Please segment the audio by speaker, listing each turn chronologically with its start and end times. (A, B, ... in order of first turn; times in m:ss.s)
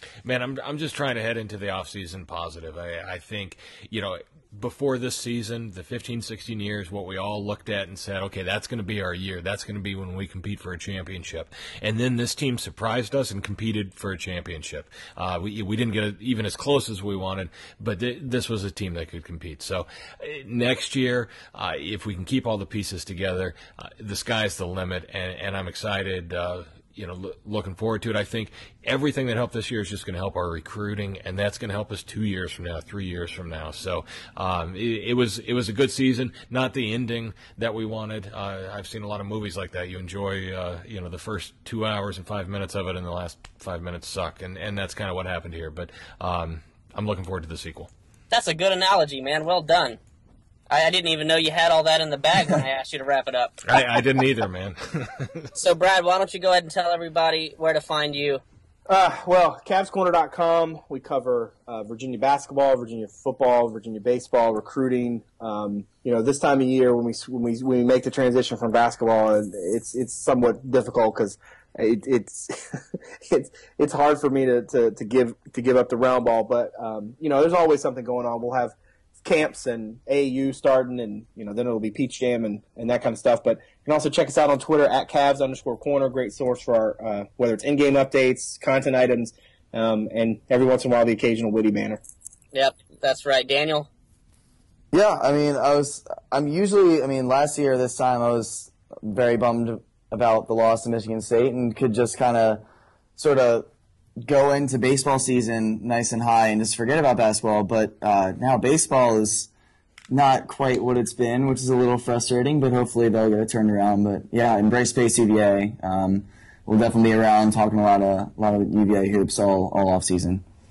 0:00.2-0:47.9 A
0:48.3-0:50.0 B
0:50.7-0:53.6 B
0:53.6-0:55.5 A
0:55.5-0:58.4 B
0:58.9-1:32.0 C
1:32.5-1:33.9 B
1:34.9-1:42.6 D
1:43.2-1:43.7 D
1:44.2-1:49.5 D
1:50.1-2:00.4 D